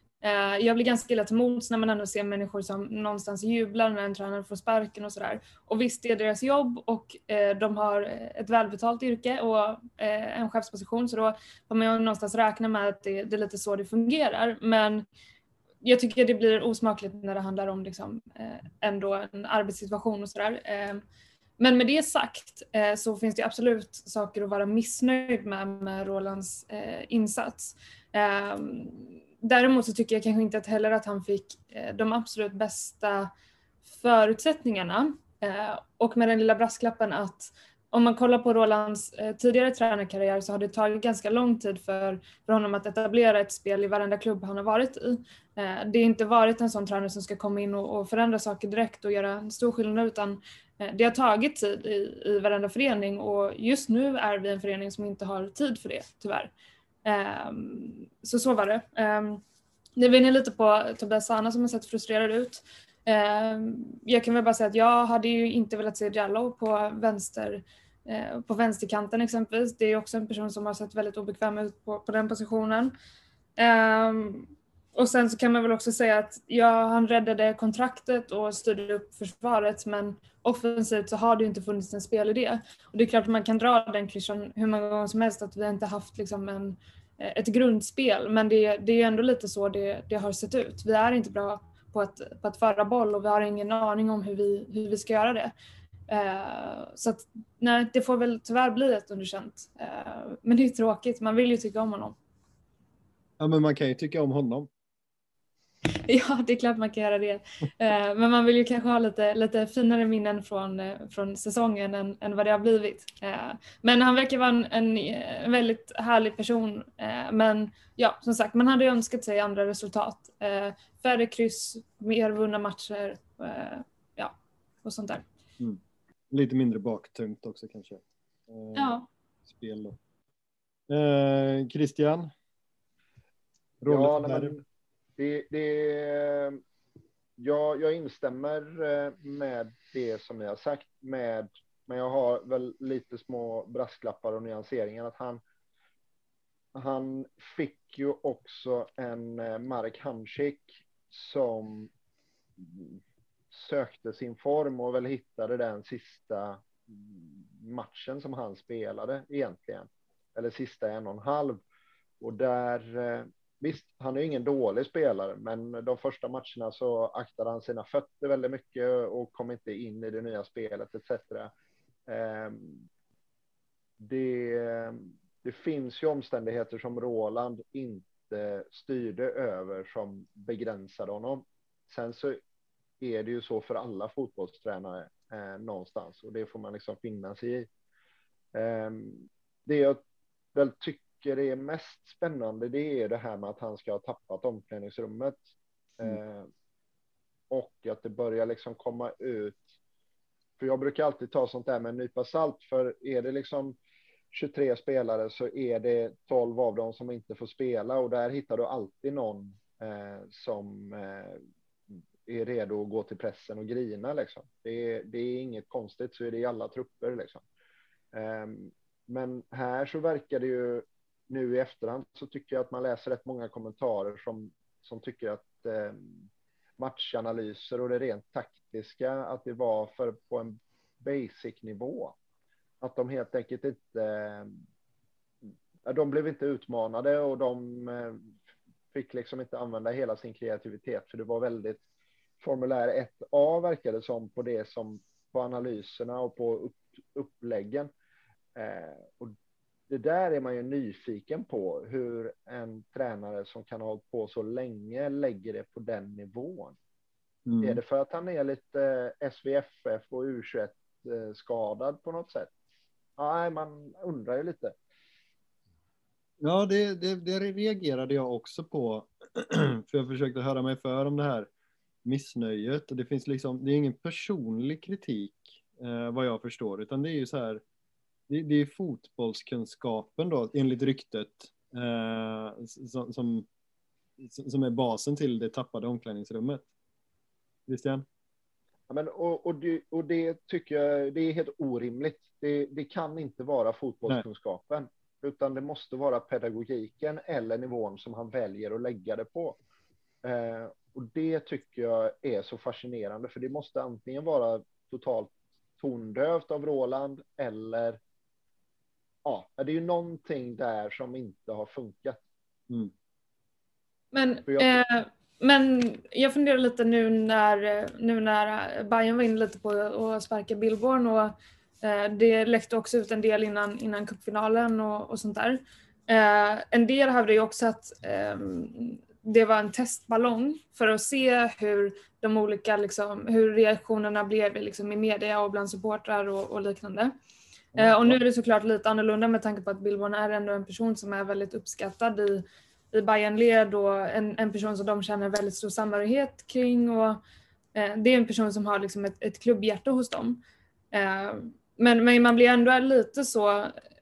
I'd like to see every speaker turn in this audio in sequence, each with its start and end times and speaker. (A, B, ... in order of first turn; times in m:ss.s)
0:00.2-0:15.0 A
0:15.8-0:21.0 A
0:21.6-0:33.3 A
0:33.9-0:56.5 A
0:57.0-0:59.4 A
1:00.0-1:12.9 A
1:13.6-1:35.5 A
1:36.1-1:42.2 A
1:43.4-1:44.7 B
1:45.9-2:05.2 A
2:06.3-2:09.0 B
2:08.8-2:09.1 A
2:09.5-2:10.0 B
2:10.9-2:12.3 B
2:13.8-2:14.6 B
2:13.9-2:14.6 C
2:15.2-2:16.6 C
2:17.4-2:25.4 C
2:26.8-2:31.9 C
2:32.6-2:33.0 C
2:33.5-2:41.6 C
2:42.2-2:51.5 C
2:52.1-2:52.8 C
2:54.0-3:02.4 C
3:03.0-3:07.7 C
3:08.5-3:10.0 C
3:10.5-3:15.4 C
3:16.0-3:16.5 C
3:17.5-3:19.7 C
3:20.6-3:23.8 C
3:24.3-3:31.4 C
3:32.3-3:37.4 C
3:38.1-3:46.1 C
3:46.8-3:52.2 C
3:52.8-3:54.6 C
3:55.9-3:58.3 C
3:58.9-4:01.8 C
4:02.4-4:07.9 C
4:08.6-4:09.4 C
4:09.9-4:16.8 C
4:17.5-4:17.8 B
4:17.6-4:22.5 C
4:23.2-4:24.8 C
4:26.4-4:31.5 B
4:32.0-4:37.6 B
4:38.3-4:43.5 B
4:44.2-4:46.6 B
4:47.7-4:48.0 B
4:48.9-4:59.6 C
5:00.2-5:08.0 C
5:09.2-5:12.2 C
5:14.1-5:37.2 A
5:14.5-5:14.8 C
5:37.8-5:38.2 B
5:37.8-5:47.2 A
5:47.8-5:50.4 A
5:50.9-5:53.8 A